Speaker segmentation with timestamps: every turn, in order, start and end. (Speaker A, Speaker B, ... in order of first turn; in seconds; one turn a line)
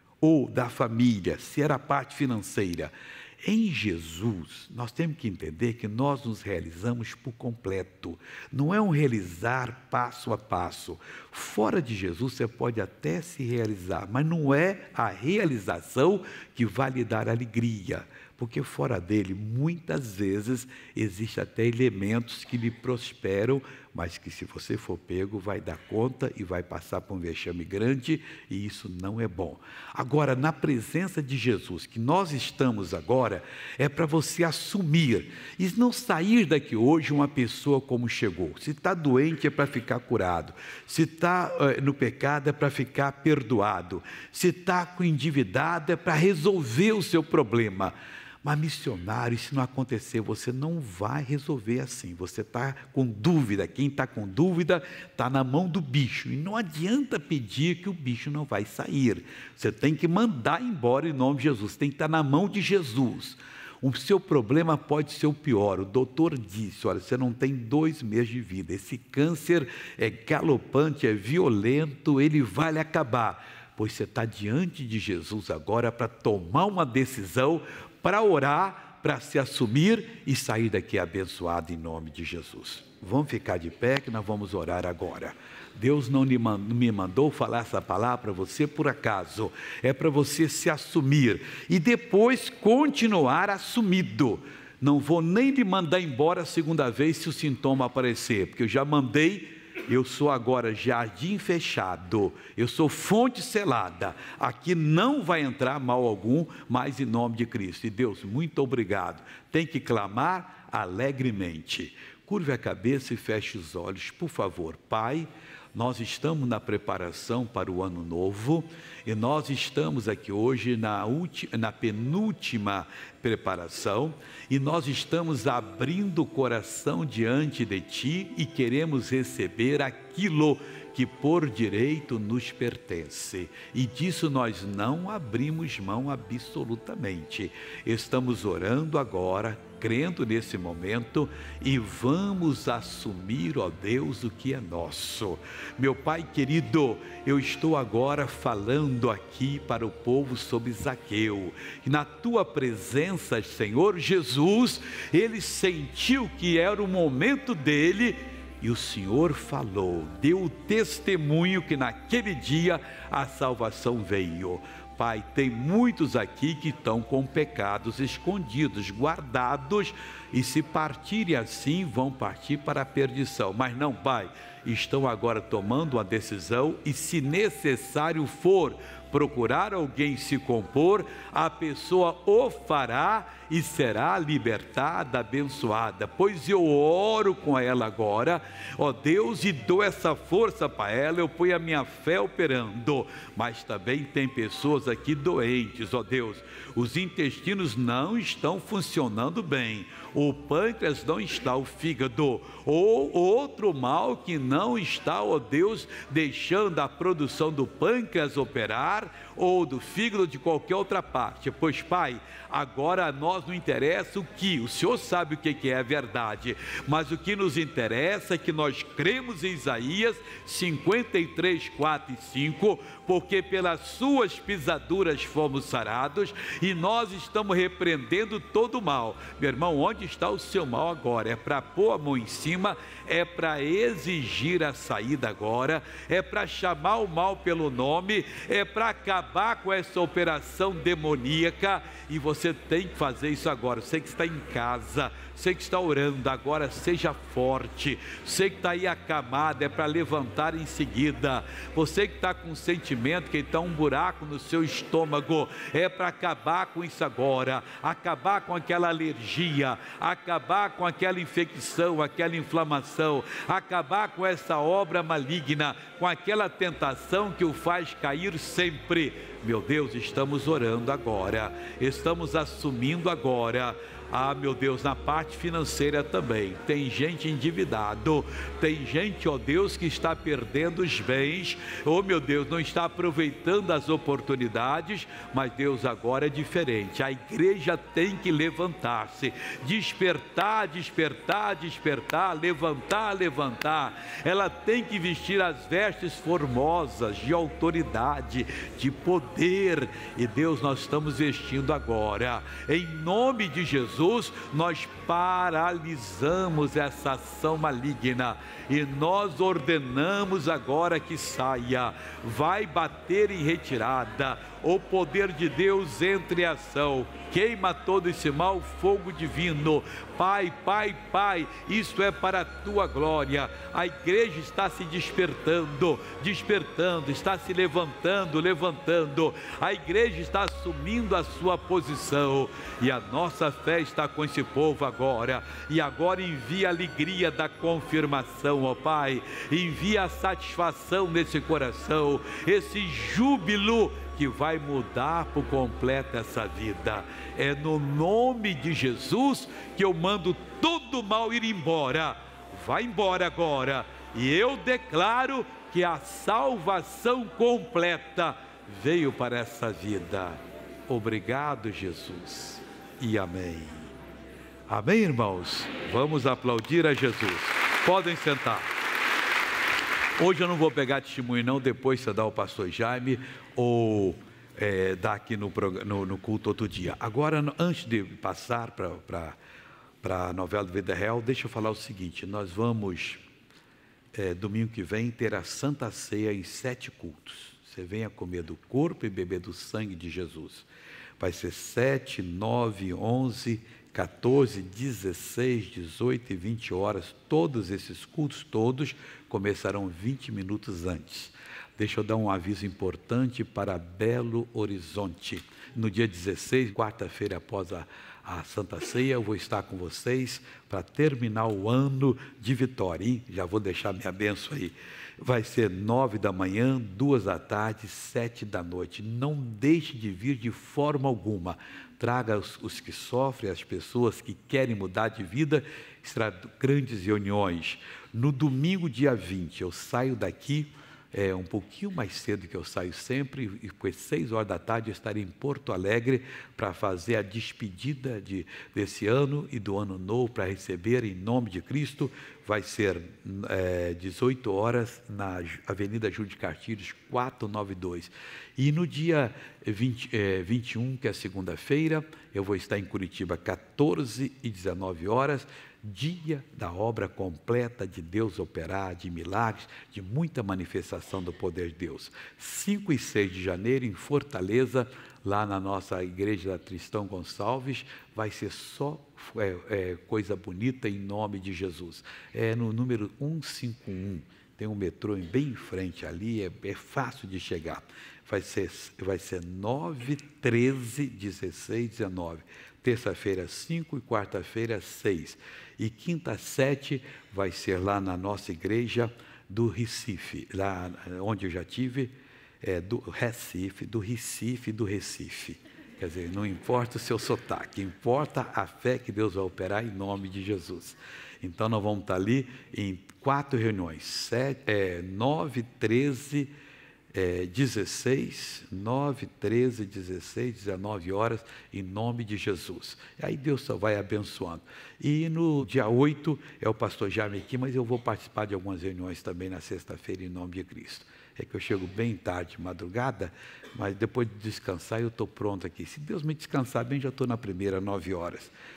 Speaker A: 0.2-363.9
Speaker A: 364.7-368.7
Speaker A: 370.2-379.4
Speaker A: 380.0-383.2
Speaker A: 384.1-390.7
Speaker A: 391.2-506.5
Speaker A: 507.1-528.5